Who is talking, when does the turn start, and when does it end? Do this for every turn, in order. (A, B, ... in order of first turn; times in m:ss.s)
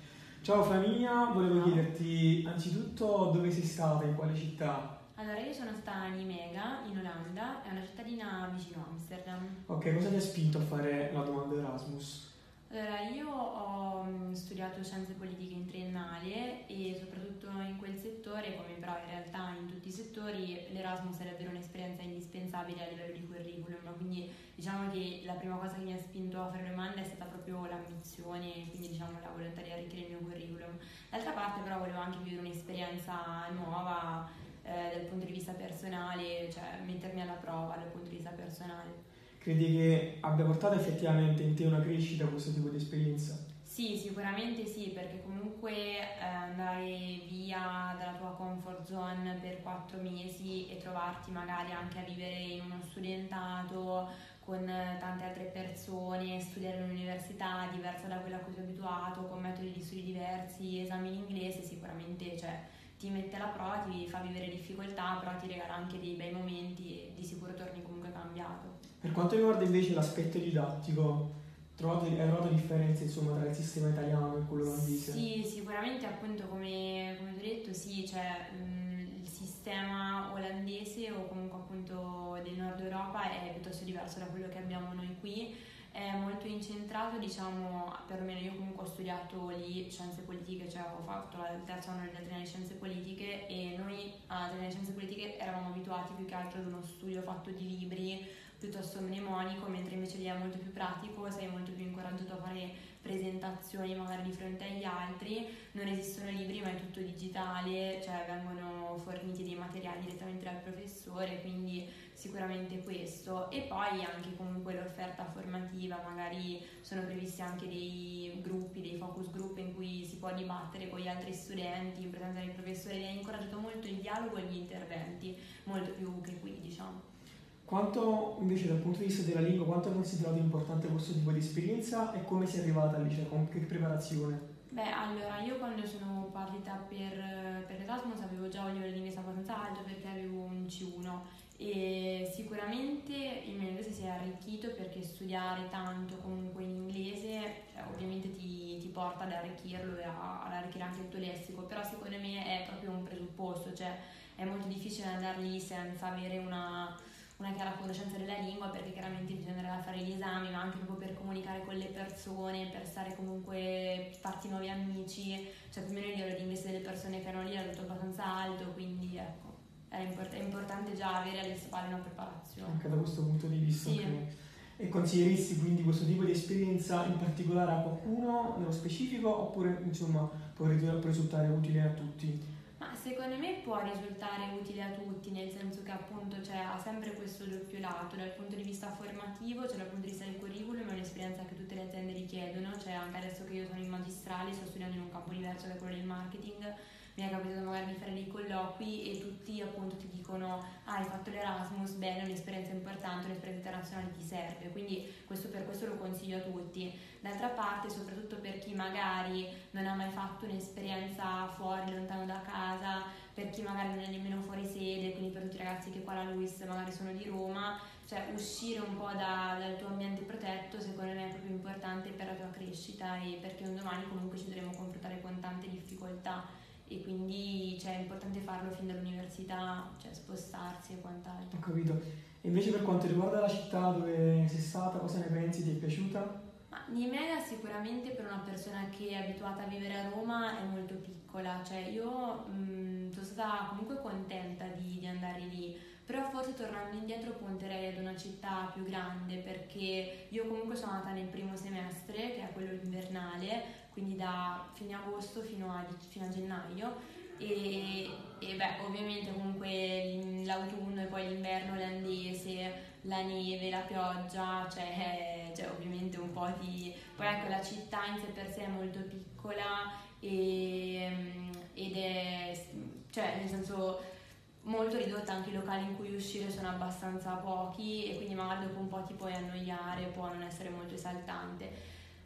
0:00.4-0:05.0 A
0:01.5-0:01.8 B
0:05.2-0:09.6 B
0:09.7-0:12.3 A
0:12.7-0:39.0 B
0:39.4-0:43.4 A
0:43.6-1:08.8 B
1:09.0-1:15.2 A
1:14.6-2:07.0 B
2:07.6-2:14.4 A
2:14.7-2:52.8 B
2:52.6-3:02.4 A
2:53.8-2:54.2 B
3:02.8-3:51.6 B
3:51.5-3:56.4 A
3:56.7-4:34.0 B
4:34.6-4:41.7 B